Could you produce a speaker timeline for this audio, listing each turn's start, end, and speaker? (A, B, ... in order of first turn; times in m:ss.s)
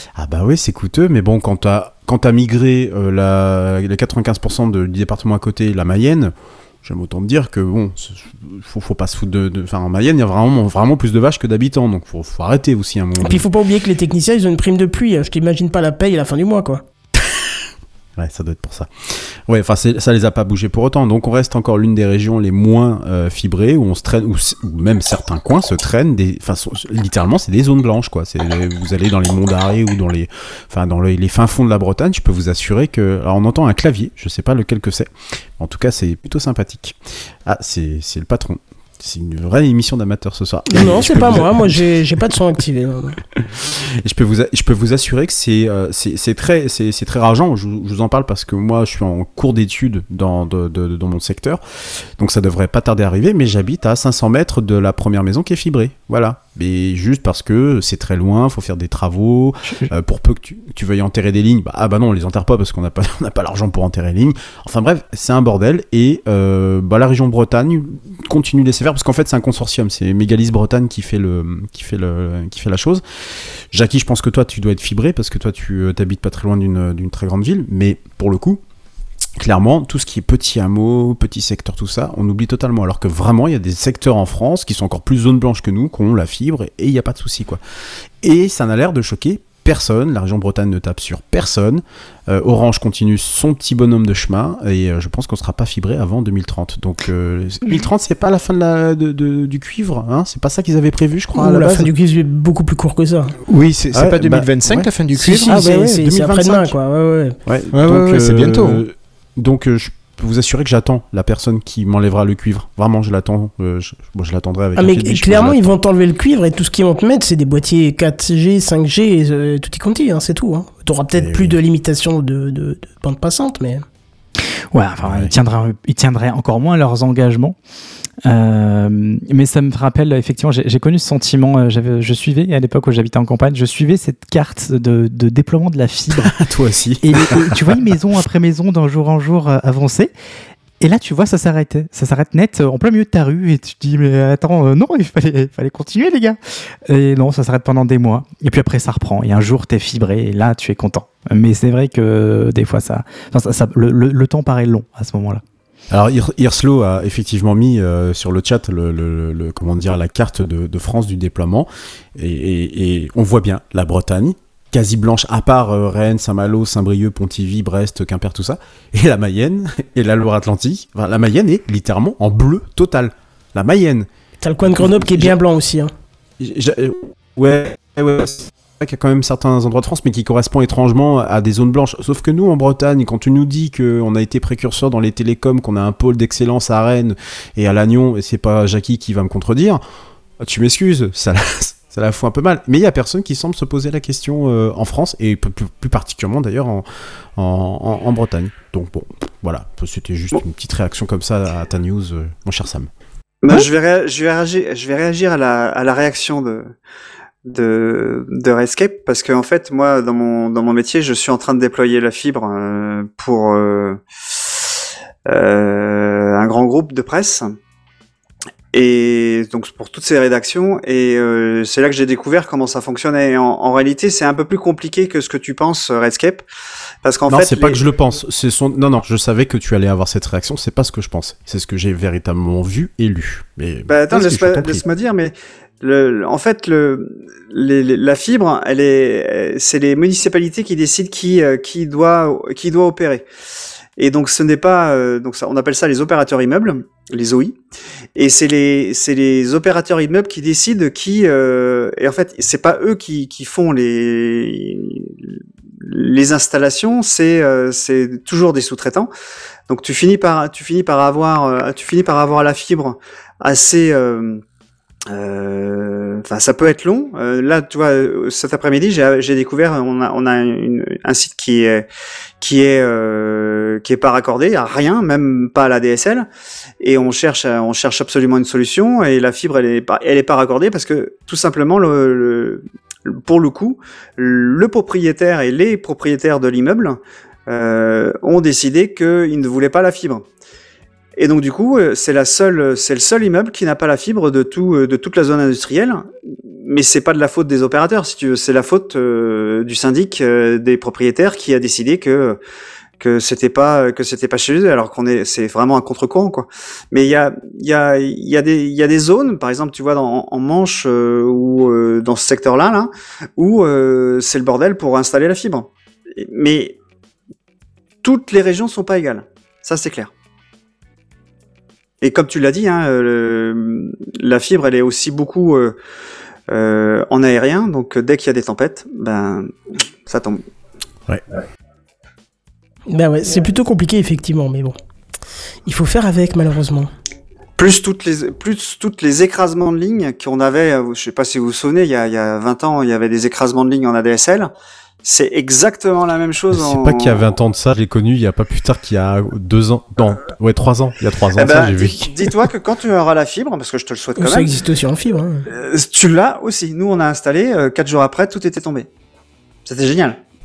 0:00.2-0:13.5 A
0:13.2-0:16.8 B
0:18.2-0:41.9 A
0:40.7-0:43.2 B
0:43.4-0:51.6 A
0:52.2-1:13.0 A
1:13.7-1:18.6 A
1:19.4-1:27.6 A
1:28.2-1:41.9 A
1:41.3-1:43.3 B
1:43.5-1:45.6 C
1:43.9-1:44.8 A
1:45.2-1:47.4 B
1:45.4-1:46.8 A
1:47.4-1:55.8 A
1:47.7-1:48.8 C
1:54.8-2:03.8 B
2:01.1-2:01.6 A
2:04.7-2:07.6 D
2:05.0-2:05.3 A
2:08.2-2:16.4 D
2:16.1-2:17.8 A
2:17.0-2:20.1 D
2:20.8-2:35.4 D
2:35.9-2:54.1 A
2:54.4-2:55.9 B
2:54.7-2:55.4 A
2:56.4-3:09.8 A
3:10.4-3:22.9 A
3:23.4-3:26.7 E
3:27.4-3:34.0 E
3:35.3-3:37.6 E
3:38.7-3:46.4 E
3:47.0-3:47.8 E
3:47.3-3:54.8 A
3:53.9-4:03.2 E
4:04.0-4:07.6 E
4:08.2-4:15.1 E
4:15.8-4:19.1 E
4:19.7-4:24.4 E
4:25.1-4:31.8 E
4:32.4-4:36.3 E
4:36.8-4:50.2 E
4:51.2-5:02.4 E
5:03.0-5:16.8 E
5:18.0-5:20.1 E
5:22.0-5:25.8 E
5:26.5-5:30.4 E
5:32.9-5:34.8 B
5:35.6-5:36.9 B
5:37.6-5:44.5 E
5:45.0-5:47.2 E
5:46.5-5:52.5 A
5:51.3-5:54.5 E
5:54.2-5:55.4 B
5:55.5-5:58.9 E
5:59.6-6:00.2 E